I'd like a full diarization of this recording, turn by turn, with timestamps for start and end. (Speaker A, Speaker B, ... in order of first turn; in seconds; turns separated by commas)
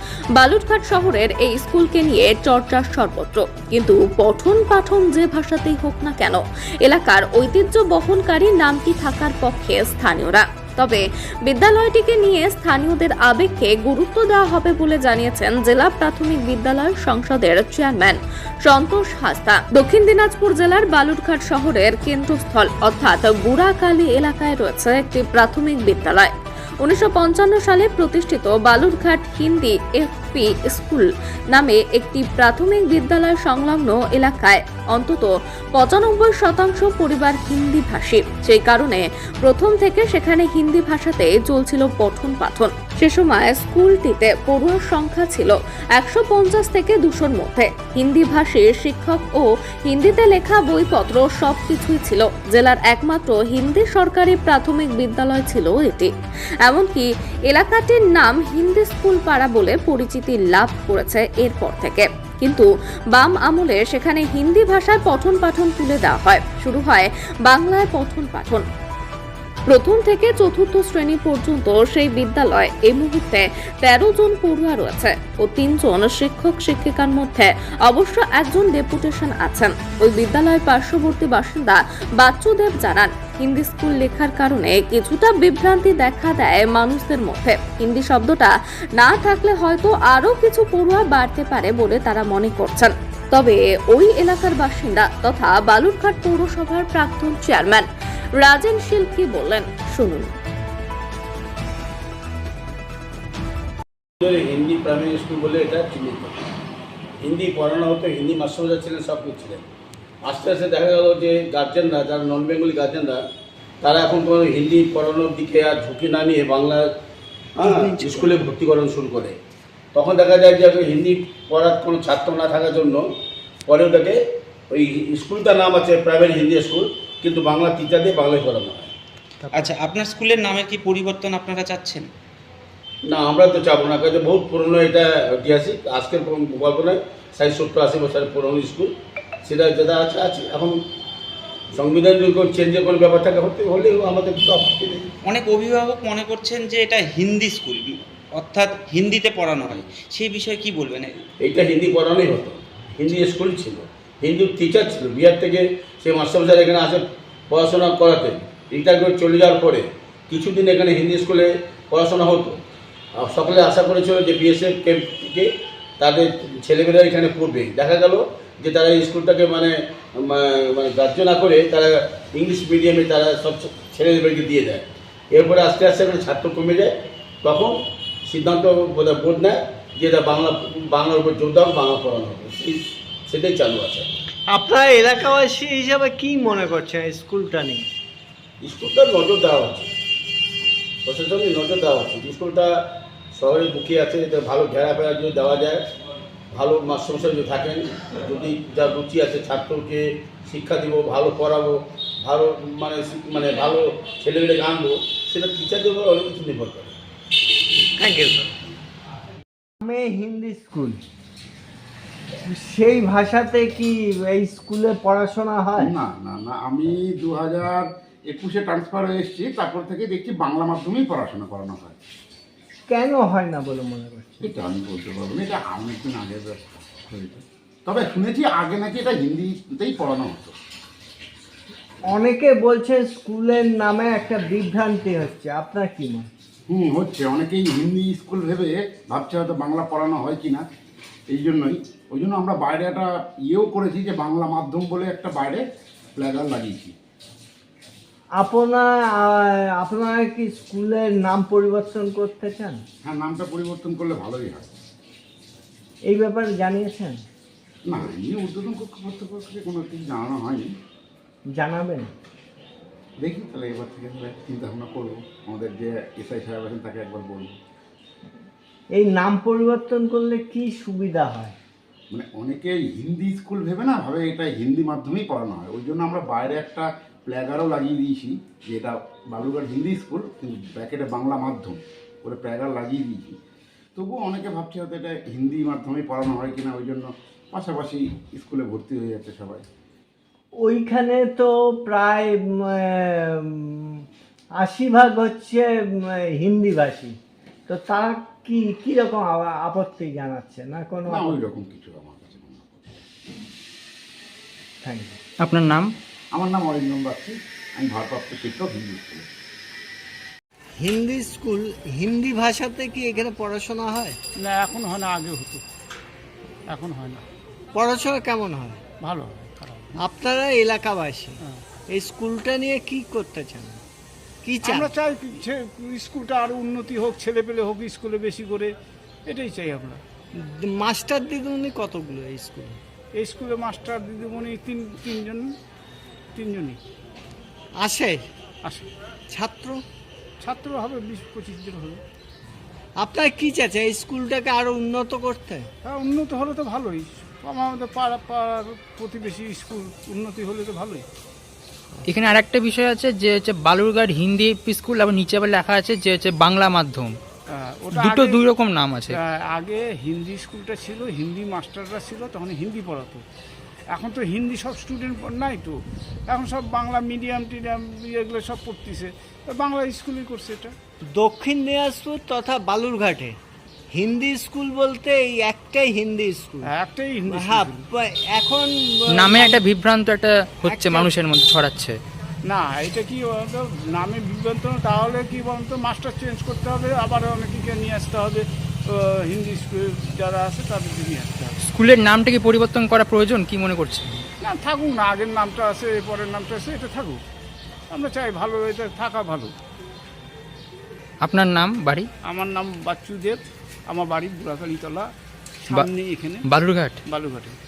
Speaker A: 0.3-26.3, Speaker A: 26.8-56.1, Speaker A: 56.6-68.7, Speaker A: 69.7-100.3, Speaker B: 104.2-106.4, Speaker B: 107.2-109.7, Speaker B: 110.2-113.2, Speaker B: 113.8-116.8, Speaker B: 117.6-119.4, Speaker B: 119.9-123.0, Speaker B: 123.7-124.2, Speaker B: 124.7-128.9, Speaker C: 129.5-132.1, Speaker B: 133.1-138.9, Speaker B: 139.4-140.8, Speaker B: 141.7-145.1, Speaker C: 145.3-151.2, Speaker B: 151.4-162.6, Speaker B: 163.2-177.8, Speaker B: 178.3-184.1, Speaker D: 184.5-187.9, Speaker B: 188.6-189.9, Speaker B: 191.1-192.7, Speaker B: 193.3-195.8, Speaker B: 196.5-206.9, Speaker D: 208.0-208.5, Speaker D: 209.8-211.0, Speaker D: 212.4-215.9, Speaker E: 215.8-222.0, Speaker D: 222.9-224.5, Speaker E: 224.4-230.6, Speaker D: 232.1-236.3, Speaker E: 236.7-240.6, Speaker E: 241.3-245.6, Speaker E: 246.2-247.0, Speaker D: 248.4-252.8, Speaker E: 253.0-254.7, Speaker D: 256.1-257.2, Speaker E: 257.9-260.7, Speaker D: 261.5-262.1, Speaker E: 263.2-267.6, Speaker D: 268.9-271.6, Speaker E: 272.1-283.4, Speaker E: 284.0-289.6, Speaker D: 290.6-294.0, Speaker D: 294.6-297.2, Speaker D: 297.7-301.5, Speaker E: 301.1-303.1, Speaker D: 304.8-305.2, Speaker F: 305.4-305.9, Speaker E: 306.3-309.2, Speaker D: 310.8-314.2, Speaker G: 314.4-315.6, Speaker G: 316.7-317.2, Speaker D: 317.8-318.8, Speaker G: 319.0-319.9, Speaker D: 319.9-321.4, Speaker D: 321.9-323.8, Speaker D: 324.4-324.9, Speaker G: 324.6-328.7, Speaker G: 329.3-330.0, Speaker D: 330.4-332.8, Speaker G: 333.1-335.5, Speaker G: 336.4-336.8, Speaker D: 337.8-338.2, Speaker D: 339.3-339.8, Speaker G: 340.4-342.0, Speaker D: 343.0-345.7, Speaker G: 345.9-351.1, Speaker F: 352.1-357.1, Speaker G: 357.5-358.4, Speaker F: 357.9-359.2, Speaker G: 359.1-363.2, Speaker G: 363.9-365.8, Speaker G: 366.3-370.7, Speaker D: 371.1-373.4, Speaker D: 373.9-376.7, Speaker G: 376.7-377.8, Speaker D: 377.3-379.6, Speaker F: 379.1-382.0, Speaker D: 380.7-381.1, Speaker G: 382.4-391.6, Speaker F: 391.7-394.3, Speaker G: 394.4-397.2, Speaker G: 397.9-399.5, Speaker F: 401.2-402.1, Speaker G: 402.3-405.1, Speaker G: 405.6-406.4, Speaker F: 406.4-407.0, Speaker G: 407.1-407.6